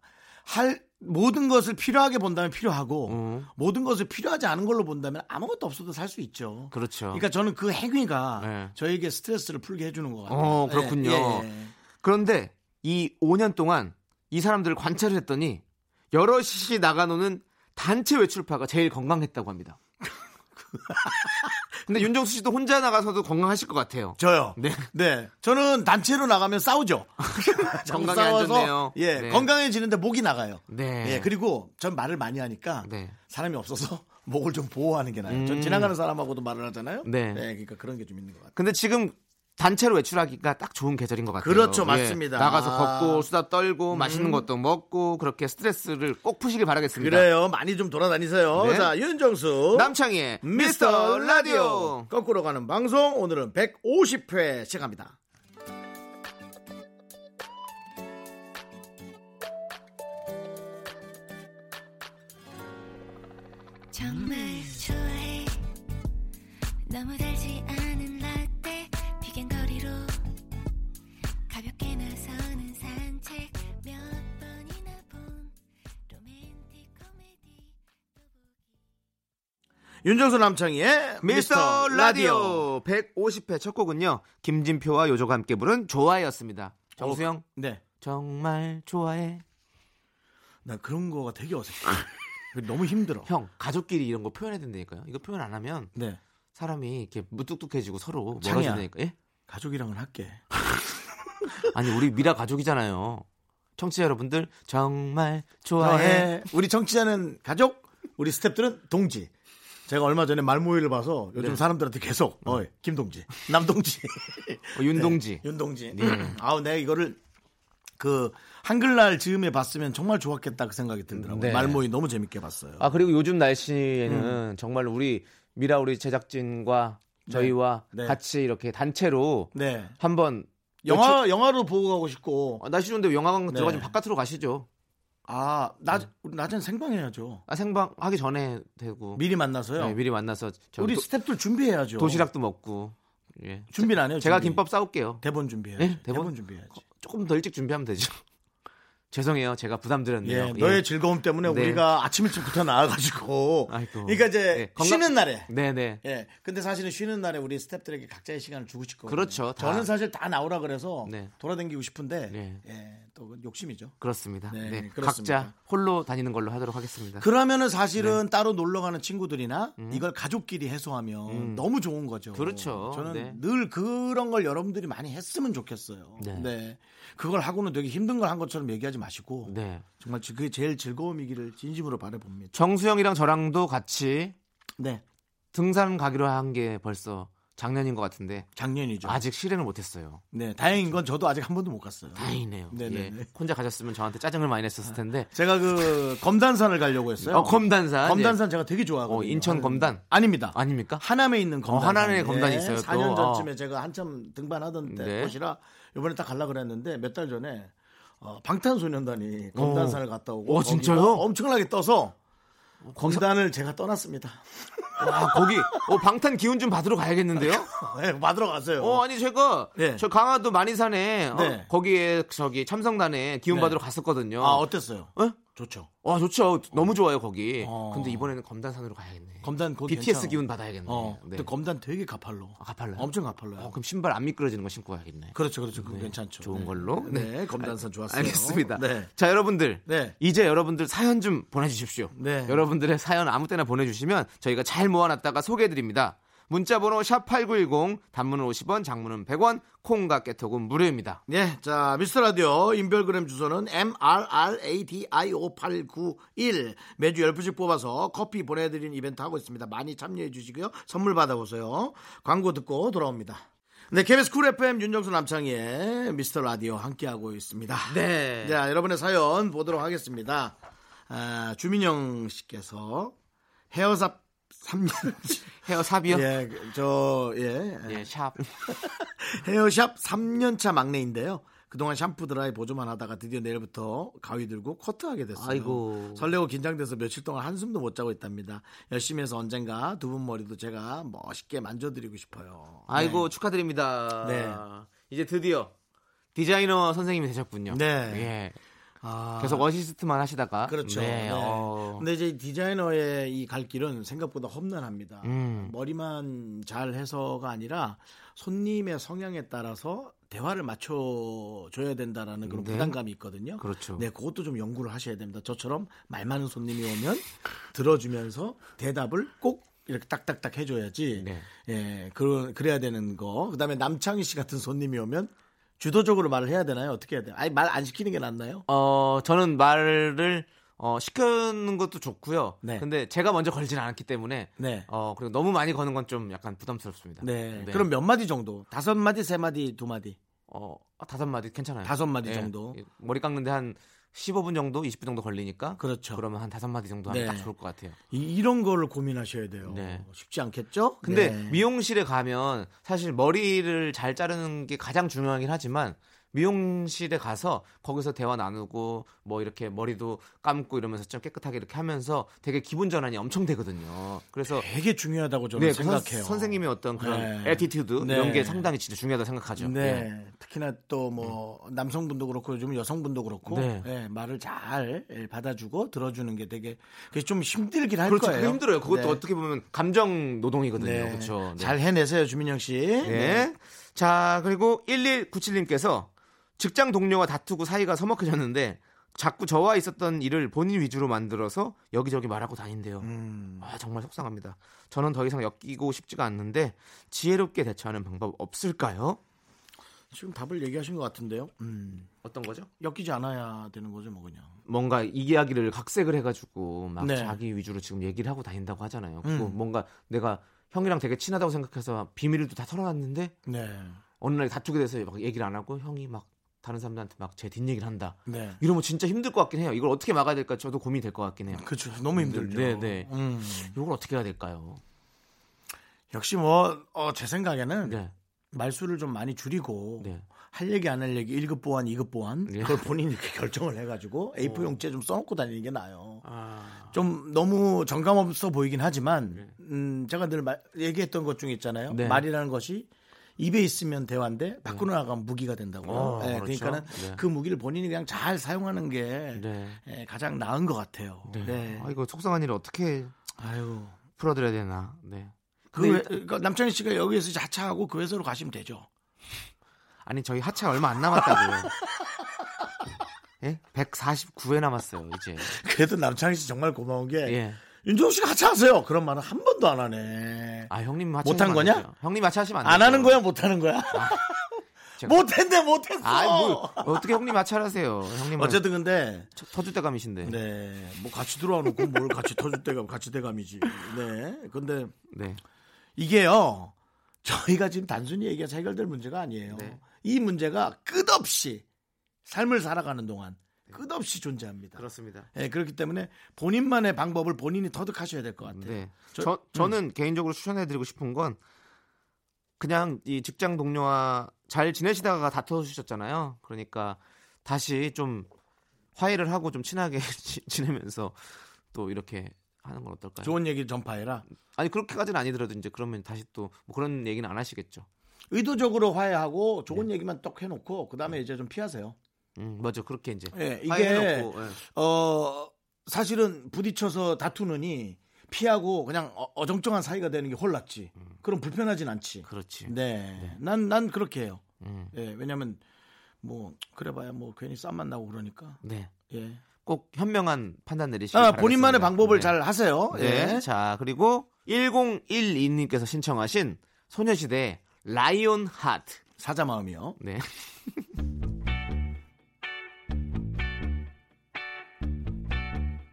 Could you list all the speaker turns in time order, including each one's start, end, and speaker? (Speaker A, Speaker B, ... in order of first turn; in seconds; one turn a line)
Speaker A: 0.4-11.7
Speaker B: 3.0-3.5
Speaker B: 6.7-7.2
Speaker B: 8.4-8.7
Speaker B: 10.3-11.5
Speaker B: 12.0-19.8
Speaker A: 20.0-22.1
Speaker B: 21.9-24.9
Speaker A: 24.2-38.5
Speaker B: 27.2-29.5
Speaker B: 30.7-31.3
Speaker B: 32.8-33.1
Speaker B: 35.3-35.9
Speaker B: 37.0-37.4
Speaker B: 38.5-47.3
Speaker A: 41.4-43.3
Speaker A: 43.9-44.5
Speaker A: 47.0-55.2
Speaker B: 48.5-48.9
Speaker B: 49.7-52.1
Speaker C: 63.9-65.6
Speaker C: 66.8-70.2
Speaker C: 71.5-75.5
Speaker C: 76.1-78.8
Speaker A: 80.0-82.7
Speaker B: 81.2-87.4
Speaker A: 87.0-87.8
Speaker B: 88.0-89.4
Speaker A: 90.6-93.3
Speaker B: 93.2-95.9
Speaker A: 95.9-96.2
Speaker B: 96.5-99.1
Speaker A: 98.4-98.9
Speaker A: 99.5-100.4
Speaker B: 101.7-103.2
Speaker B: 103.8-106.4
Speaker A: 105.8-109.3
Speaker A: 109.9-117.2
Speaker B: 114.7-116.3
Speaker A: 118.0-123.0
Speaker B: 121.1-121.8
Speaker B: 122.8-131.2
Speaker A: 124.0-124.4
Speaker A: 127.2-128.2
Speaker A: 129.5-129.9
Speaker A: 130.8-132.6
Speaker B: 132.6-134.7
Speaker A: 133.5-133.9
Speaker A: 135.3-137.4
Speaker B: 137.5-139.2
Speaker A: 139.1-140.0
Speaker B: 139.8-141.1
Speaker A: 140.8-142.2
Speaker B: 142.0-145.2
Speaker A: 143.7-144.6
Speaker A: 145.2-146.8
Speaker B: 145.8-148.2
Speaker B: 149.1-150.9
Speaker A: 150.2-155.5
Speaker B: 151.4-151.8
Speaker B: 153.7-156.0
Speaker A: 156.0-163.9
Speaker B: 159.1-159.9
Speaker B: 161.0-161.3
Speaker B: 162.3-162.6
Speaker B: 164.0-167.3
Speaker A: 164.5-165.5
Speaker A: 167.2-182.5
Speaker B: 169.8-170.0
Speaker B: 171.3-171.6
Speaker B: 172.3-173.4
Speaker B: 176.2-176.5
Speaker B: 179.4-179.8
Speaker B: 182.5-184.3
Speaker A: 184.8-185.0
Speaker B: 185.5-188.5
Speaker A: 188.6-189.2
Speaker B: 189.0-190.2
Speaker A: 190.3-193.3
Speaker B: 192.1-195.3
Speaker A: 194.8-212.2
Speaker B: 197.2-198.4
Speaker B: 199.1-201.0
Speaker B: 201.7-203.5
Speaker B: 204.8-205.3
Speaker B: 209.5-211.2
Speaker B: 212.8-213.2
Speaker A: 212.9-215.9
Speaker B: 215.0-217.7
Speaker A: 217.3-219.0
Speaker B: 218.8-225.4
Speaker A: 219.8-220.0
Speaker A: 221.3-221.7
Speaker A: 223.5-223.8
Speaker A: 224.4-225.9
Speaker B: 226.0-231.5
Speaker A: 227.6-228.3
Speaker A: 229.4-233.7
Speaker B: 232.6-251.2
Speaker A: 235.3-239.1
Speaker A: 239.8-240.2
Speaker A: 242.1-242.7
Speaker A: 251.3-270.6
Speaker B: 267.9-268.6
Speaker A: 271.1-273.1
Speaker A: 273.7-275.5
Speaker B: 275.6-276.3
Speaker A: 276.1-278.1
Speaker B: 277.9-278.5
Speaker A: 278.6-293.3
Speaker B: 285.4-286.3
Speaker B: 292.9-295.7
Speaker A: 294.2-294.6
Speaker B: 296.3-298.6
Speaker A: 297.7-298.3
Speaker A: 299.0-299.7
Speaker B: 299.4-302.0
Speaker A: 300.6-328.6
Speaker B: 305.2-305.7
Speaker B: 312.4-313.0
Speaker B: 313.6-314.0
Speaker B: 321.1-321.5
Speaker B: 328.7-337.9
Speaker A: 334.6-334.9
Speaker A: 337.2-340.2
Speaker B: 340.5-347.9
Speaker A: 341.8-342.8
Speaker A: 345.8-346.2
Speaker A: 347.1-347.5
Speaker A: 348.1-351.6
Speaker B: 349.6-350.1
Speaker B: 351.0-364.6
Speaker A: 364.5-368.7
Speaker B: 365.6-370.1
Speaker A: 369.6-379.2
Speaker B: 373.5-373.9
Speaker B: 378.1-381.7
Speaker A: 380.8-383.5
Speaker B: 383.0-393.1
Speaker A: 393.0-393.7
Speaker B: 393.6-399.2
Speaker A: 400.1-402.1
Speaker B: 402.2-402.7
Speaker A: 402.8-404.6
Speaker B: 404.7-413.3
Speaker A: 407.0-407.4
Speaker A: 409.2-409.6
Speaker A: 413.4-414.0
Speaker B: 414.2-424.8
Speaker A: 418.3-418.6
Speaker A: 421.5-423.8
Speaker A: 426.1-428.0
Speaker B: 427.8-428.1
Speaker A: 428.5-436.2
Speaker B: 432.5-432.8
Speaker B: 434.4-434.8
Speaker B: 436.2-436.9
Speaker A: 436.9-451.9
Speaker B: 441.9-442.2
Speaker B: 445.8-447.2
Speaker B: 449.3-449.8
Speaker B: 451.3-453.1
Speaker A: 453.4-454.0
Speaker B: 454.1-456.1
Speaker A: 455.7-458.9
Speaker B: 460.0-461.7
Speaker A: 461.1-462.1
Speaker B: 463.4-465.5
Speaker A: 465.4-470.7
Speaker B: 467.2-467.6
Speaker B: 470.7-473.2
Speaker A: 471.2-471.9
Speaker A: 472.6-477.2
Speaker B: 473.9-474.2
Speaker B: 476.0-478.6
Speaker A: 478.3-479.3
Speaker B: 479.3-480.4
Speaker A: 480.2-484.9
Speaker B: 485.1-485.4
Speaker A: 486.0-491.6
Speaker B: 489.5-489.8
Speaker A: 492.2-499.8
Speaker B: 494.8-495.3
Speaker B: 498.4-501.4
Speaker B: 502.6-508.3
Speaker B: 508.9-513.3
Speaker A: 513.2-514.2
Speaker B: 514.4-517.9
Speaker A: 518.3-522.0
Speaker B: 522.4-524.6
Speaker A: 523.3-535.6
Speaker B: 532.3-533.4
Speaker B: 534.6-534.9
Speaker A: 536.2-539.4
Speaker B: 538.6-538.9
Speaker B: 539.6-542.3
Speaker A: 541.1-543.5
Speaker B: 542.9-549.0
Speaker A: 549.2-550.0
Speaker B: 550.0-550.8